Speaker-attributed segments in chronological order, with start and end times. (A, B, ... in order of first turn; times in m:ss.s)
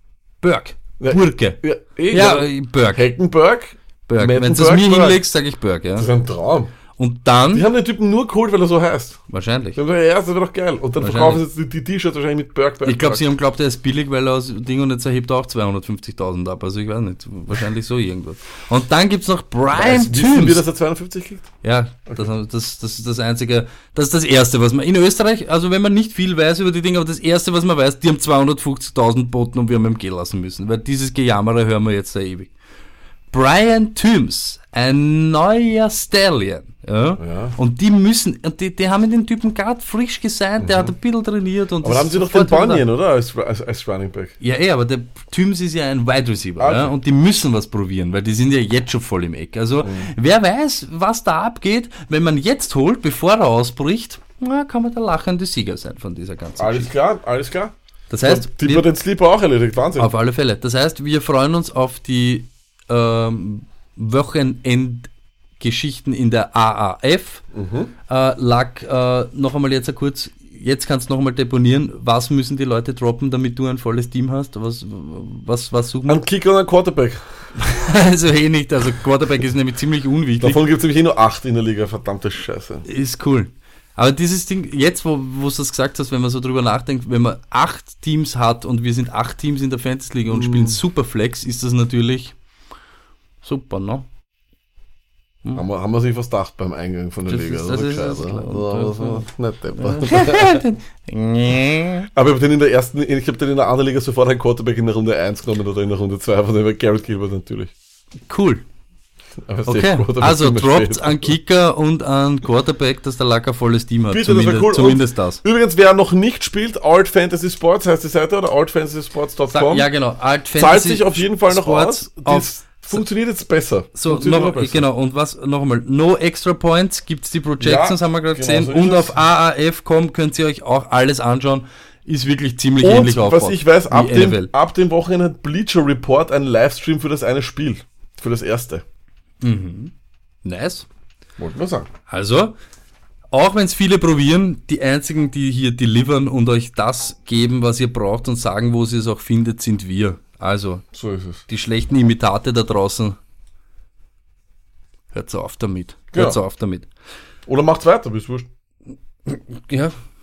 0:00.4-0:03.1 A
0:01.0-0:05.2 B
0:04.1-0:06.1 A
0:06.0-0:06.7 B
0:07.0-0:07.7 A
0:07.5-0:09.2 B
0:09.3-0:09.8 A
0:09.8-0:13.2 B
0:11.0-0:11.4 A
0:12.8-0:20.6 A
0:19.7-0:21.5 B
0:21.6-0:32.5 A
0:33.3-0:42.8 A
0:37.2-0:37.6 B
0:40.6-0:40.9 B
0:41.8-0:44.4 B
0:44.4-0:56.9 A
0:46.6-0:46.9 B
0:49.8-0:50.1 B
0:56.6-0:57.7 B
0:58.1-0:58.9 A
0:58.2-1:00.1 B
1:00.0-1:05.1 A
1:05.6-1:07.4 A
1:07.5-1:07.9 B
1:08.1-1:16.2 A
1:16.1-1:17.5 B
1:17.6-1:20.6 A
1:20.4-1:22.8 B
1:22.8-1:32.4 A
1:30.3-1:30.8 B
1:33.4-1:34.1 A
1:35.6-1:40.6 B
1:37.3-1:39.2 A
1:39.8-1:42.1 A
1:42.1-1:47.7 B
1:48.3-1:48.6 A
1:49.4-1:51.3 B
1:49.7-1:55.4 A
1:54.1-1:59.9 B
1:59.5-2:03.0 A
2:00.6-2:04.8 B
2:04.0-2:14.5 A
2:07.6-2:09.2 B
2:12.8-2:18.8 B
2:19.4-2:19.9 A
2:20.4-2:20.9 A
2:21.4-2:21.9 B
2:22.1-2:22.6 A
2:23.3-2:30.8 A
2:30.9-2:31.4 B
2:31.5-2:33.2 A
2:35.1-2:36.9 A
2:37.5-2:38.5 B
2:39.3-2:40.0 A